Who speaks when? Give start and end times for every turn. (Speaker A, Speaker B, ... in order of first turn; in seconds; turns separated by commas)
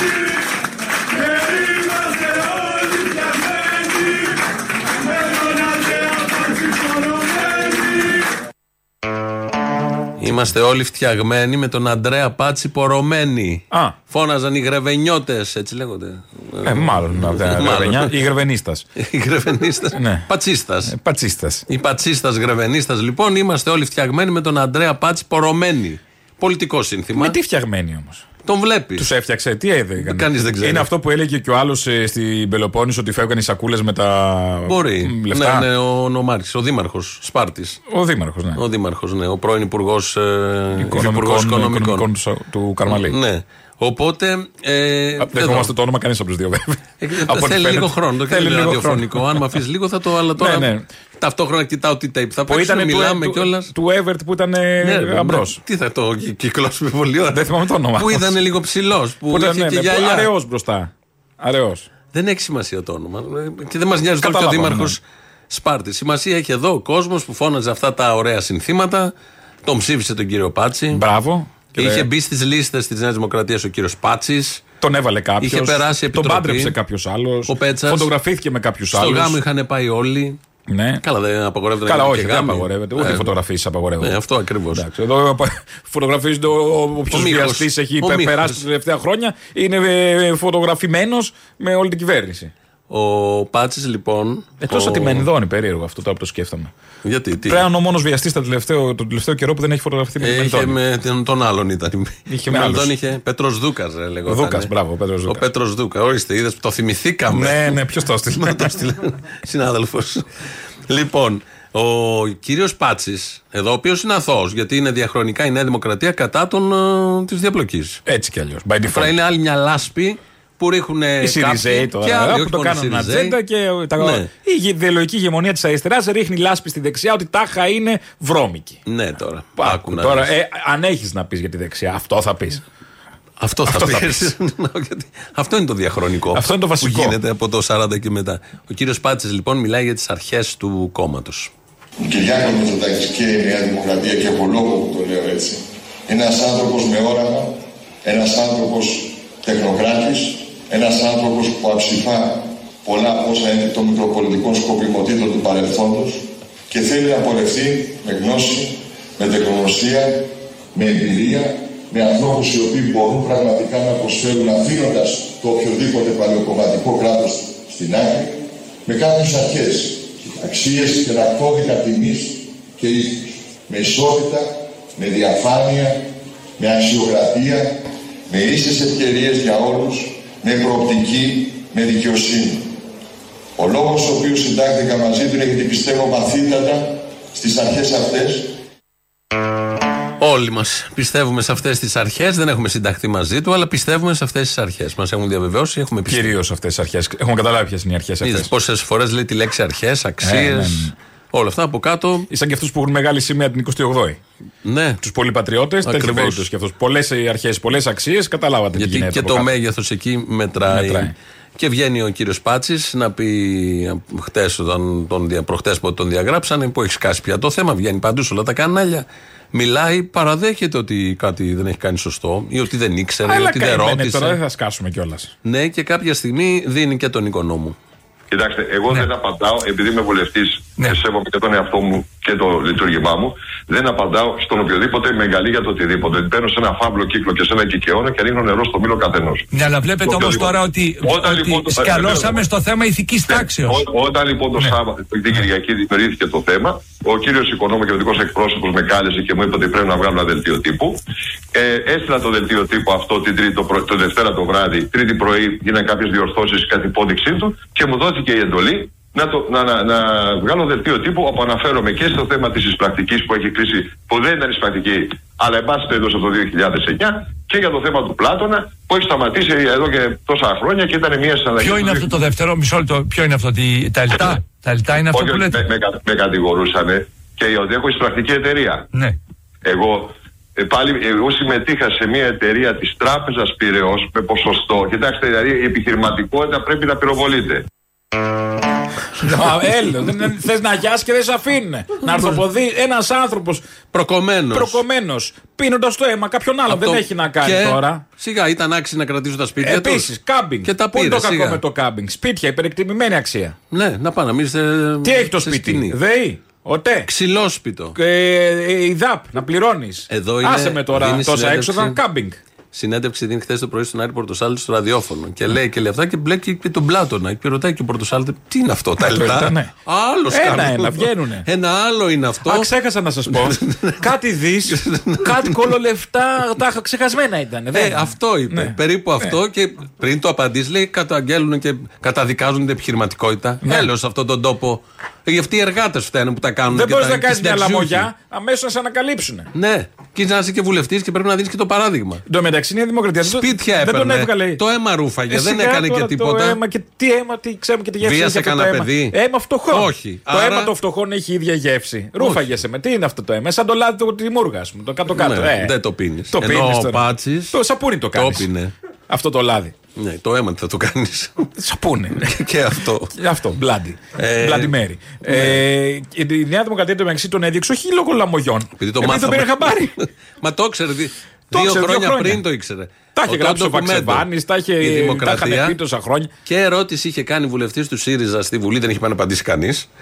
Speaker A: 10.2-18.1, Speaker B: 13.7-13.9, Speaker B: 16.6-18.9, Speaker A: 19.0-20.9, Speaker B: 19.9-20.2, Speaker B: 20.9-21.6, Speaker A: 21.7-27.4, Speaker B: 27.1-28.2, Speaker A: 28.4-29.1, Speaker B: 29.0-35.7, Speaker A: 30.0-30.9, Speaker A: 34.6-37.8, Speaker B: 37.9-38.6, Speaker A: 38.5-42.1, Speaker B: 40.8-43.2, Speaker A: 42.9-45.7, Speaker B: 45.2-49.6, Speaker A: 47.0-53.7, Speaker B: 50.4-50.9, Speaker B: 52.5-55.6, Speaker A: 54.8-57.4, Speaker B: 57.3-58.3, Speaker A: 58.0-60.3, Speaker B: 59.3-61.9, Speaker A: 62.1-69.1, Speaker B: 64.2-65.0, Speaker A: 69.6-71.0, Speaker B: 70.9-72.1, Speaker A: 71.8-74.6, Speaker B: 74.8-79.4, Speaker A: 75.4-76.8, Speaker A: 77.5-78.1, Speaker A: 78.9-80.4, Speaker B: 80.7-81.0, Speaker A: 81.0-83.3, Speaker B: 81.8-84.2, Speaker A: 84.0-84.8, Speaker B: 84.7-92.5, Speaker A: 87.1-88.6, Speaker A: 92.9-95.3, Speaker B: 94.6-96.7, Speaker A: 97.0-97.6, Speaker B: 97.5-100.8, Speaker A: 100.2-104.7, Speaker B: 102.3-102.9, Speaker B: 104.2-105.4, Speaker A: 105.3-107.8, Speaker B: 107.3-108.7, Speaker A: 108.3-110.3, Speaker A: 110.9-118.0, Speaker B: 118.1-119.1, Speaker A: 118.9-123.3, Speaker B: 121.2-128.8, Speaker A: 124.0-124.3, Speaker A: 128.8-130.3, Speaker B: 129.6-132.6, Speaker A: 133.4-141.5, Speaker B: 133.6-134.3, Speaker B: 136.3-137.2, Speaker C: 142.0-176.1, Speaker C: 176.6-182.7, Speaker C: 183.6-188.5, Speaker A: 190.2-196.3, Speaker B: 196.1-198.5, Speaker A: 198.2-202.3, Speaker B: 200.2-200.9, Speaker B: 202.3-204.2, Speaker A: 204.6-205.0, Speaker B: 205.0-209.5, Speaker A: 205.8-206.4, Speaker A: 208.8-224.4, Speaker B: 210.7-211.1, Speaker B: 223.2-225.3, Speaker A: 225.4-227.8, Speaker D: 228.3-239.4, Speaker E: 239.5-243.8, Speaker D: 240.0-242.4, Speaker D: 243.3-251.0, Speaker D: 251.5-272.1, Speaker E: 271.6-275.6, Speaker D: 274.9-278.9, Speaker D: 279.6-287.6, Speaker B: 289.2-293.7, Speaker A: 292.0-292.4, Speaker A: 293.9-294.8, Speaker B: 294.5-298.0, Speaker A: 296.7-300.1, Speaker B: 299.6-303.6, Speaker A: 300.6-301.6, Speaker A: 303.7-305.9, Speaker B: 305.0-307.1, Speaker A: 307.1-307.9, Speaker B: 307.9-312.4, Speaker A: 310.1-312.0, Speaker A: 312.7-322.7, Speaker B: 319.0-319.7, Speaker B: 320.3-321.4, Speaker B: 322.4-329.4, Speaker A: 323.3-324.0, Speaker A: 324.7-325.7, Speaker A: 327.7-338.1, Speaker B: 333.6-333.9, Speaker B: 336.7-339.5, Speaker A: 339.5-342.2, Speaker B: 342.3-344.6, Speaker A: 343.2-346.6, Speaker B: 345.3-355.7, Speaker A: 348.0-349.1, Speaker A: 349.7-350.7, Speaker A: 352.2-352.5, Speaker A: 355.1-357.6, Speaker B: 356.3-358.5, Speaker A: 358.1-358.7, Speaker B: 359.1-359.8, Speaker A: 359.9-361.5, Speaker B: 361.6-362.3, Speaker A: 362.2-363.1, Speaker B: 363.1-369.9, Speaker A: 364.2-364.7, Speaker A: 365.2-365.6, Speaker A: 368.8-374.3, Speaker B: 371.5-372.4, Speaker B: 373.1-376.3, Speaker A: 374.8-375.8, Speaker A: 376.4-379.9